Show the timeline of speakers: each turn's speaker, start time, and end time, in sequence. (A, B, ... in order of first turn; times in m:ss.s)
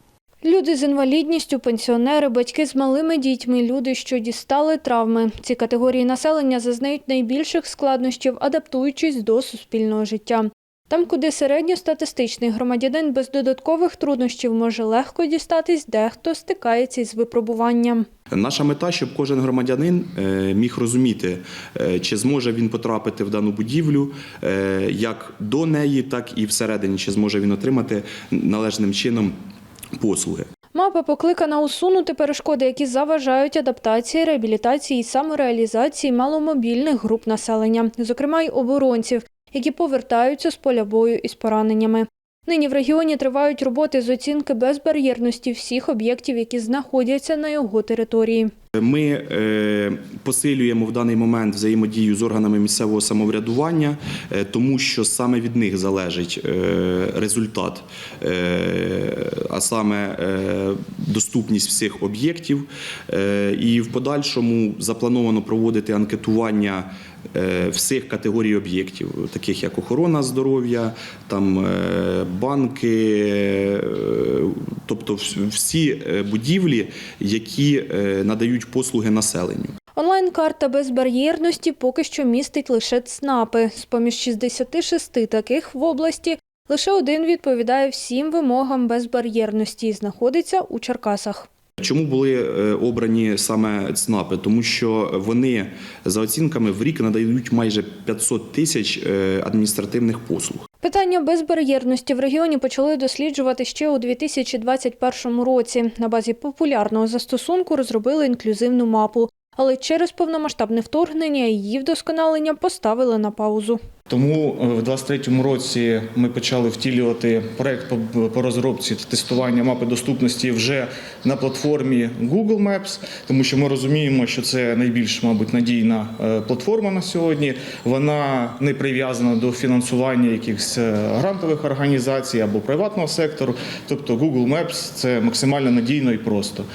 0:00.4-0:18.0 A
0:18.3-0:29.3 B
0:30.0-0:30.5 B
0:30.7-0:48.5 A
0:48.8-1:19.7 B
1:20.0-1:31.5 A
1:31.8-1:40.6 B
1:40.8-1:53.8 A
1:54.1-2:16.6 C